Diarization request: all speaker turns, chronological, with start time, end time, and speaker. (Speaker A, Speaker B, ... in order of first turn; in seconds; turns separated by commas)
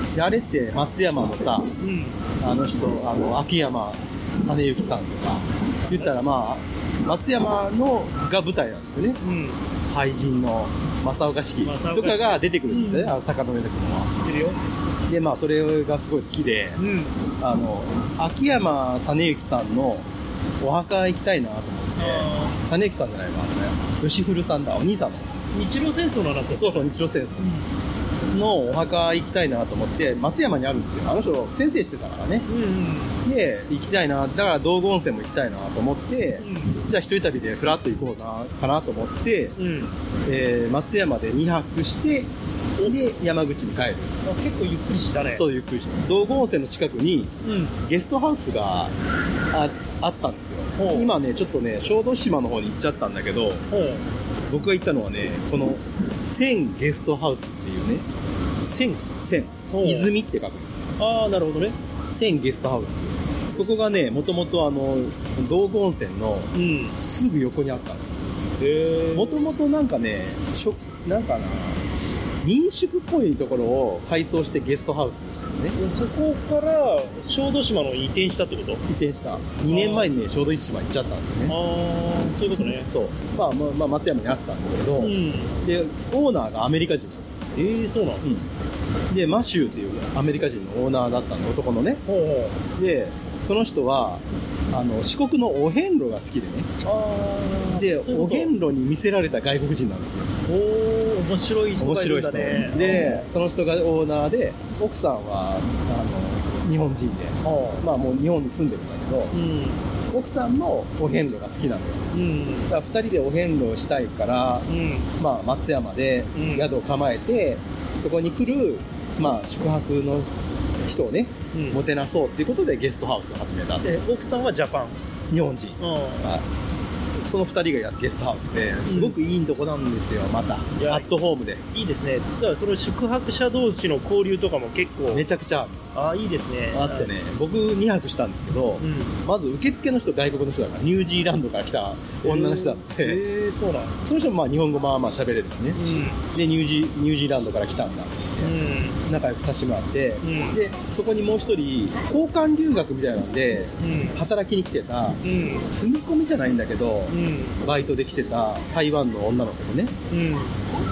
Speaker A: 0.1-1.8, Speaker B: 1.8-2.2, Speaker A: 2.4-9.2, Speaker B: 5.9-6.2, Speaker B: 9.2-9.7, Speaker A: 9.9-14.2, Speaker B: 11.6-13.2, Speaker B: 14.1-14.6, Speaker A: 15.1-16.8, Speaker B: 16.8-17.3, Speaker A: 17.4-25.4, Speaker B: 22.0-22.6, Speaker B: 25.5-27.7, Speaker A: 26.5-27.6, Speaker A: 28.3-32.5, Speaker B: 32.5-33.2, Speaker A: 33.2-39.6, Speaker B: 36.4-36.8, Speaker B: 39.6-40.0, Speaker A: 40.2-44.2, Speaker B: 42.8-43.1, Speaker B: 44.2-45.5, Speaker A: 45.3-49.0, Speaker B: 47.4-47.8, Speaker A: 49.5-53.7, Speaker B: 50.8-51.1, Speaker B: 53.7-54.1, Speaker A: 54.5-58.1, Speaker B: 58.6-59.1, Speaker A: 59.2-61.0, Speaker B: 59.7-60.1, Speaker B: 61.0-61.8, Speaker A: 62.1-68.2, Speaker B: 63.5-63.8, Speaker B: 66.5-67.0, Speaker B: 68.6-69.5, Speaker A: 69.1-75.8, Speaker B: 75.8-78.8, Speaker A: 78.9-81.6, Speaker B: 79.7-80.1, Speaker B: 81.5-82.9, Speaker A: 82.8-87.4, Speaker B: 85.0-85.6, Speaker B: 87.5-88.3, Speaker A: 88.2-88.5, Speaker A: 89.1-92.0, Speaker B: 92.1-92.6, Speaker A: 92.8-96.7, Speaker B: 96.8-98.5, Speaker A: 97.7-100.4, Speaker B: 100.5-103.3, Speaker A: 101.8-109.4, Speaker B: 107.4-107.9, Speaker B: 109.3-109.9, Speaker A: 110.1-112.1, Speaker B: 112.1-112.8, Speaker A: 112.7-123.9, Speaker B: 114.7-115.1, Speaker B: 116.3-116.7, Speaker B: 121.5-121.8, Speaker B: 123.8-125.0, Speaker A: 125.3-126.5, Speaker B: 125.8-126.3, Speaker A: 127.0-131.6, Speaker B: 128.9-129.2, Speaker B: 130.8-131.1, Speaker B: 131.7-135.3, Speaker A: 135.1-135.8, Speaker B: 135.9-137.1, Speaker A: 136.7-143.2, Speaker B: 138.8-139.2, Speaker B: 142.2-144.0, Speaker A: 144.0-159.9, Speaker B: 145.8-146.2, Speaker B: 148.4-149.0, Speaker B: 150.2-150.6, Speaker B: 153.8-154.2, Speaker B: 155.2-155.7, Speaker B: 157.1-157.6, Speaker B: 160.1-160.6